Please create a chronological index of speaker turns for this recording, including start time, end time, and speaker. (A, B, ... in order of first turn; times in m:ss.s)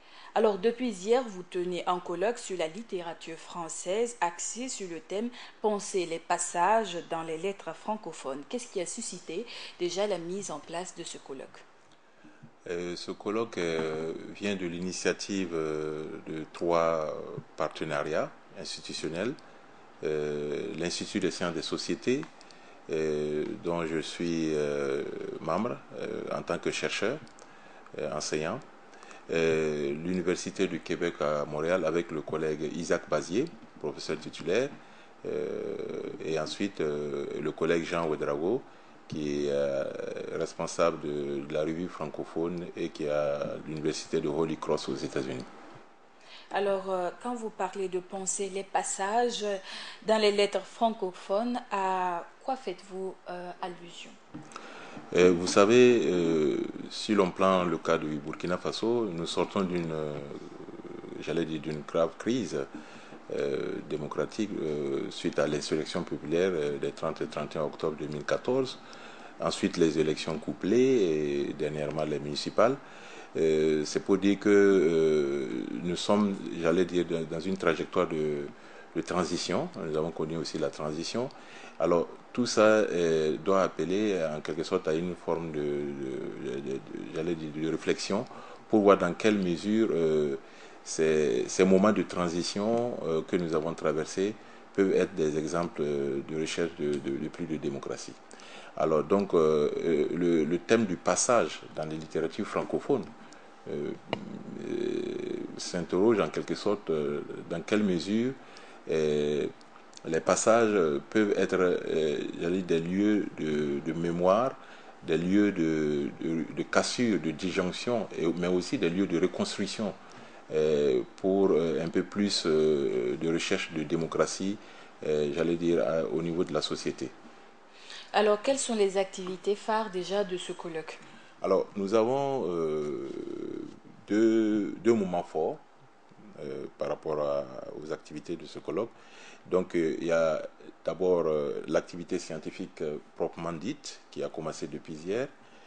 0:00.3-0:11.6 A
0:12.6-0:19.4 B
0:20.0-0:22.3 B
0:22.9-0:27.2 B
0:27.9-0:28.6 B
0:29.3-0:45.5 B
0:46.5-0:54.1 A
0:55.1-1:02.7 B
1:03.3-1:08.8 B
1:09.4-1:12.8 B
1:13.3-1:38.2 B
1:38.8-1:43.1 B
1:43.6-1:49.5 B
1:50.0-2:00.0 B
2:00.5-2:07.1 B
2:08.1-2:11.0 A
2:11.4-2:15.6 B
2:16.4-2:18.9 B
2:19.5-2:25.3 B